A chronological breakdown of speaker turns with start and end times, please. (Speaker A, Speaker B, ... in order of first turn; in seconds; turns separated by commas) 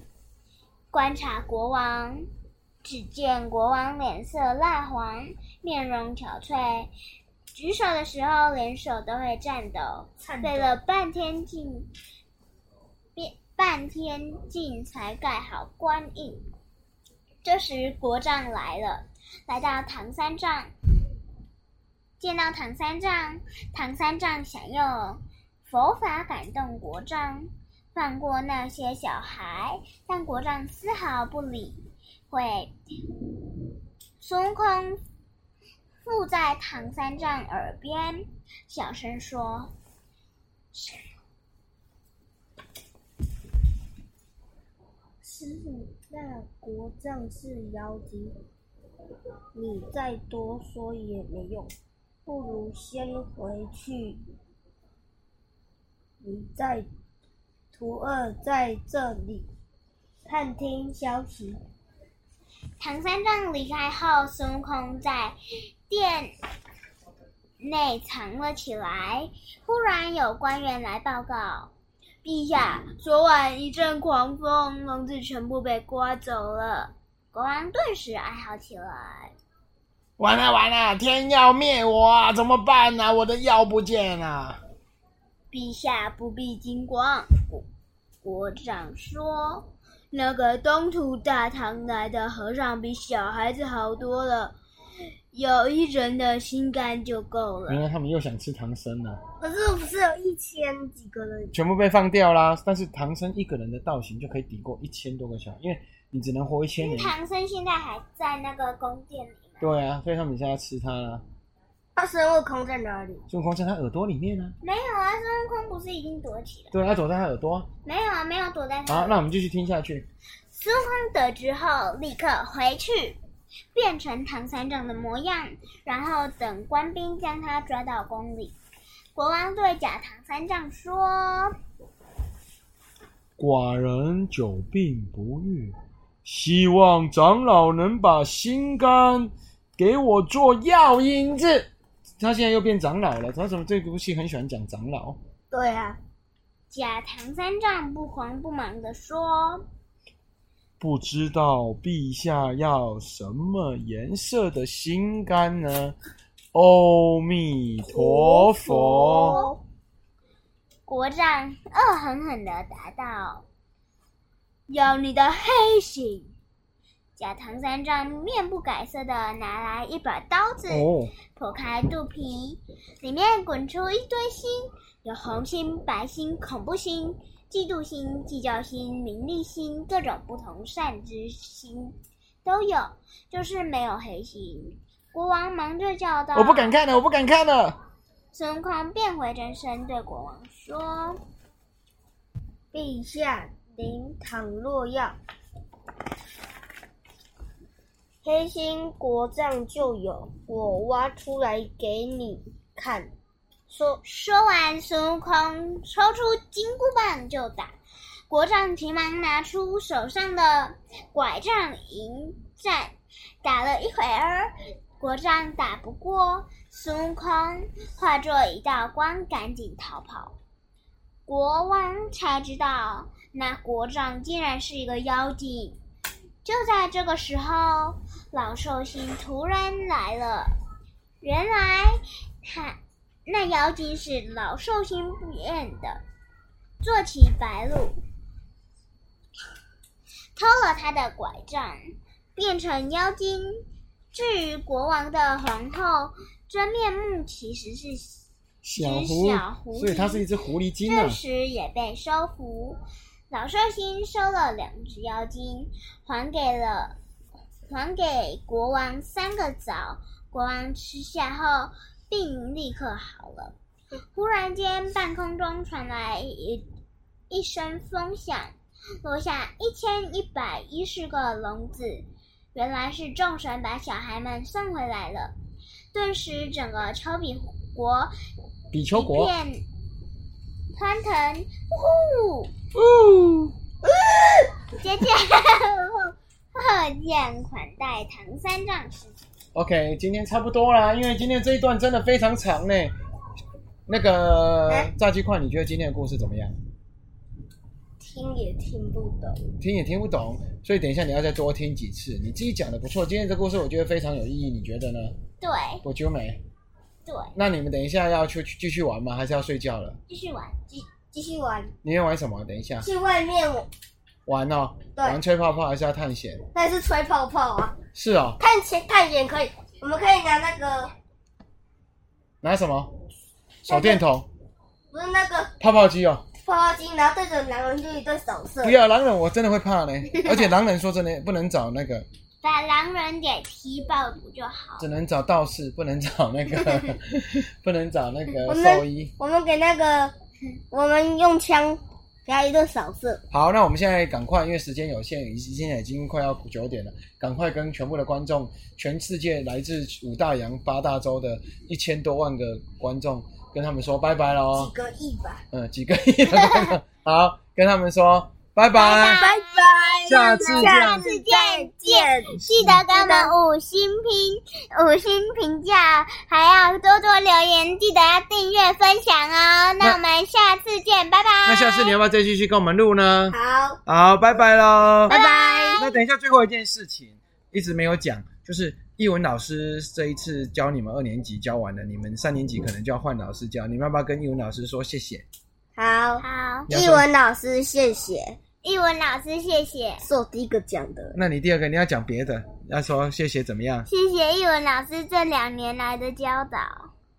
Speaker A: 0.9-2.3, Speaker A: 2.8-6.9, Speaker A: 7.5-11.9, Speaker B: 10.2-10.8, Speaker A: 13.2-16.4, Speaker A: 17.4-20.7, Speaker A: 22.2-32.8, Speaker A: 34.2-35.0, Speaker A: 36.0-39.7, Speaker A: 40.7-41.0, Speaker B: 45.2-48.4, Speaker B: 49.5-51.7, Speaker B: 52.2-54.2, Speaker B: 56.2-56.9, Speaker B: 57.7-59.5, Speaker B: 60.2-61.6, Speaker A: 62.8-65.3, Speaker A: 65.9-66.3, Speaker A: 67.6-71.7, Speaker A: 72.2-79.3, Speaker C: 80.2-84.6, Speaker A: 85.5-87.7, Speaker A: 88.2-94.5, Speaker A: 95.3-97.8, Speaker C: 97.7-99.2, Speaker B: 99.4-101.5, Speaker C: 101.5-107.1, Speaker A: 106.8-109.7, Speaker C: 109.6-111.2, Speaker B: 112.0-113.2, Speaker C: 113.3-114.5, Speaker A: 114.6-116.7, Speaker C: 116.7-117.7, Speaker A: 117.8-119.2, Speaker C: 118.9-120.0, Speaker A: 120.5-123.2, Speaker A: 123.7-128.6, Speaker A: 129.1-131.6, Speaker C: 133.4-141.7, Speaker C: 142.2-145.2, Speaker B: 145.5-146.0, Speaker A: 146.7-149.7, Speaker C: 150.8-155.9, Speaker C: 156.5-159.4, Speaker B: 157.8-159.6, Speaker A: 159.2-159.5, Speaker A: 160.8-163.4, Speaker A: 164.7-166.1, Speaker A: 167.2-186.7, Speaker C: 170.7-171.1, Speaker C: 186.3-187.8, Speaker A: 188.3-191.2, Speaker B: 192.7-195.2, Speaker B: 198.2-203.1, Speaker B: 203.7-204.0, Speaker A: 204.0-207.7, Speaker A: 208.3-220.3, Speaker A: 221.2-225.8, Speaker A: 226.4-230.5, Speaker A: 231.2-236.0, Speaker A: 236.8-238.0, Speaker A: 240.3-241.8, Speaker A: 242.3-248.2, Speaker C: 248.6-251.2, Speaker A: 248.8-250.2, Speaker A: 250.9-256.9, Speaker A: 257.7-263.6, Speaker A: 264.1-266.6, Speaker A: 267.3-275.3, Speaker A: 275.9-278.1, Speaker C: 278.7-279.3, Speaker A: 278.9-279.6, Speaker A: 280.7-282.5, Speaker C: 282.7-283.5, Speaker B: 283.8-284.5, Speaker A: 284.8-289.1, Speaker C: 289.5-292.9, Speaker C: 293.9-296.6, Speaker B: 298.0-299.4, Speaker C: 299.6-305.1, Speaker A: 305.4-305.8, Speaker C: 305.8-306.4, Speaker A: 307.1-307.3, Speaker C: 307.4-310.0, Speaker A: 310.1-310.6, Speaker B: 310.7-311.7, Speaker C: 311.8-312.9, Speaker B: 312.8-313.7, Speaker C: 314.2-316.4, Speaker B: 316.5-317.8, Speaker C: 317.9-318.4, Speaker B: 318.4-320.9, Speaker C: 322.4-322.9, Speaker C: 323.6-324.3, Speaker B: 323.7-324.0, Speaker B: 324.9-325.5, Speaker C: 325.6-326.2, Speaker B: 326.3-328.8, Speaker C: 328.6-332.1, Speaker A: 332.4-334.9, Speaker C: 334.8-339.1, Speaker B: 338.4-340.1, Speaker B: 340.7-343.2, Speaker C: 343.3-354.7, Speaker B: 354.5-355.4, Speaker C: 355.5-359.3, Speaker A: 358.7-359.7, Speaker B: 359.0-363.3, Speaker C: 360.1-361.0, Speaker A: 360.4-372.0, Speaker C: 362.5-362.8, Speaker C: 371.4-375.1, Speaker B: 373.3-373.8, Speaker A: 375.1-375.9, Speaker B: 375.1-375.9, Speaker C: 375.8-385.2, Speaker B: 385.8-388.4, Speaker A: 386.2-386.7, Speaker C: 386.7-387.1, Speaker A: 388.6-390.0, Speaker B: 390.0-391.2, Speaker C: 391.1-393.9, Speaker A: 393.9-396.9